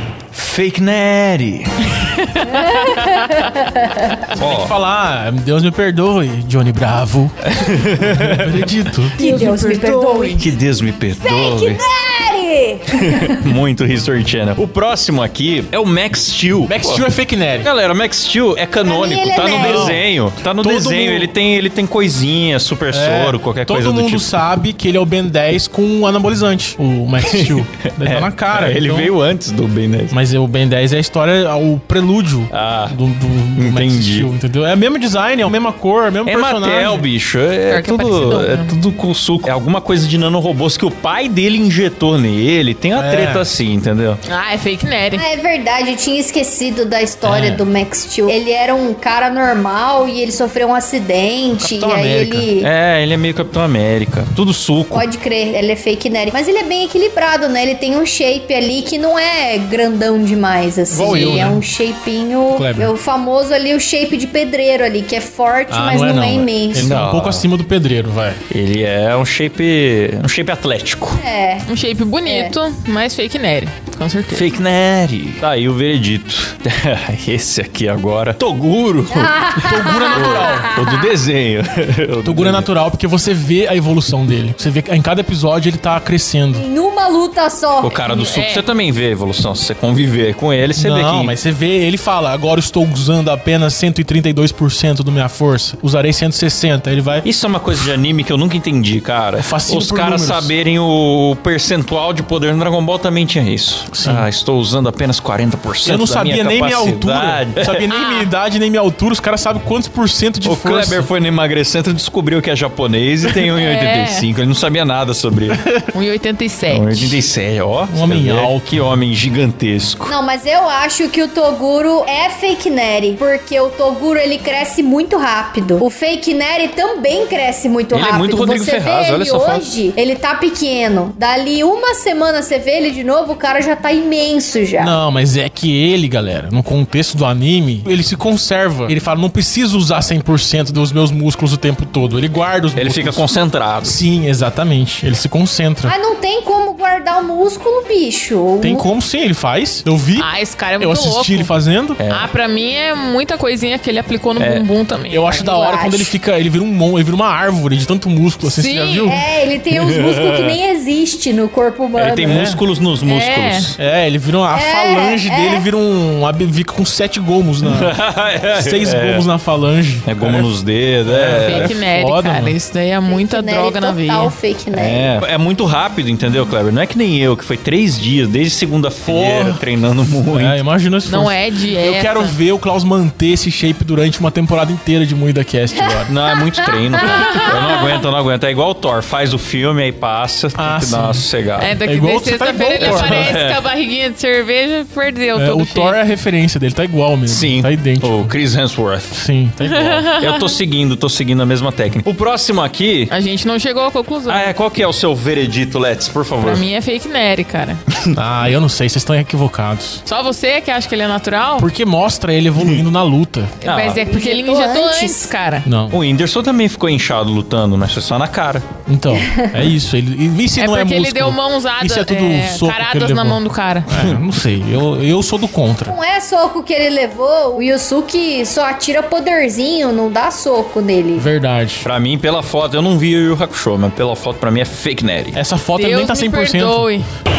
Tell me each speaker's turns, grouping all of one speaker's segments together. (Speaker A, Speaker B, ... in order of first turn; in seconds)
Speaker A: 0.3-1.8, 4.3-4.7, 7.4-8.7, 10.4-11.8, 12.9-17.1, 17.6-24.3, 27.2-30.1, 32.5-33.0, 33.5-34.3, 36.2-44.2, 52.6-55.0, 66.8-67.5, 68.5-71.2, 74.3-82.7, 87.8-91.3, 97.2-107.9, 110.4-115.6, 116.7-120.1, 127.9-129.6, 142.8-144.0, 152.0-152.3, 154.4-154.7, 159.7-160.6, 161.9-163.8, 167.6-169.2, 170.0-171.7, 174.7-180.6, 186.1-191.7, 192.8-193.6, 197.3-199.2, 200.2-203.1, 204.3-206.6, 207.9-208.2, 212.6-212.8, 213.6-214.0, 215.9-218.7, 231.8-235.4
Speaker B: 2.0-3.5, 9.2-10.4, 37.7-38.7, 44.2-45.2, 71.7-74.5, 88.1-88.6, 107.9-108.3, 113.5-114.2, 115.9-117.2, 150.2-151.5, 152.1-155.5, 158.4-159.2, 163.1-163.7, 171.3-174.3, 181.1-182.3, 187.1-187.5, 191.6-196.0, 199.6-200.5, 203.1-204.5, 206.4-207.8, 210.1-211.7, 213.6-215.7, 220.6-223.9, 235.7-237.1
Speaker C: 2.5-4.2, 9.2-10.4, 11.2-13.5, 18.8-20.0, 45.1-52.7, 54.9-66.9, 71.2-71.7, 72.2-72.5, 79.1-81.1, 86.5-88.0, 120.0-134.9, 145.9-148.8, 155.3-156.1, 159.1-162.5, 164.5-165.7, 173.1-175.2, 186.0-187.5, 214.0-215.3, 219.2-219.6, 225.9-231.3
Speaker D: 4.3-7.4, 8.0-9.2, 16.7-17.7, 19.5-20.0, 20.6-21.3, 22.9-29.1, 30.1-37.0, 42.9-43.4, 47.2-47.6, 51.6-52.5, 60.9-61.6, 62.5-62.9, 65.7-68.4, 79.5-80.7, 82.2-86.6, 90.8-97.2, 99.4-100.5, 103.9-104.3, 105.8-111.1, 115.5-115.8, 117.9-118.7, 134.8-143.3, 143.8-145.9, 148.6-152.0, 155.1-159.2, 162.3-162.6, 163.8-167.9, 168.5-170.5, 171.0-172.5, 179.0-179.6, 180.3-186.1, 190.6-191.2, 191.8-193.3, 195.3-198.3, 199.1-200.1, 208.1-210.0, 211.6-213.5, 215.6-216.0, 218.9-225.9, 231.2-231.8, 235.3-236.8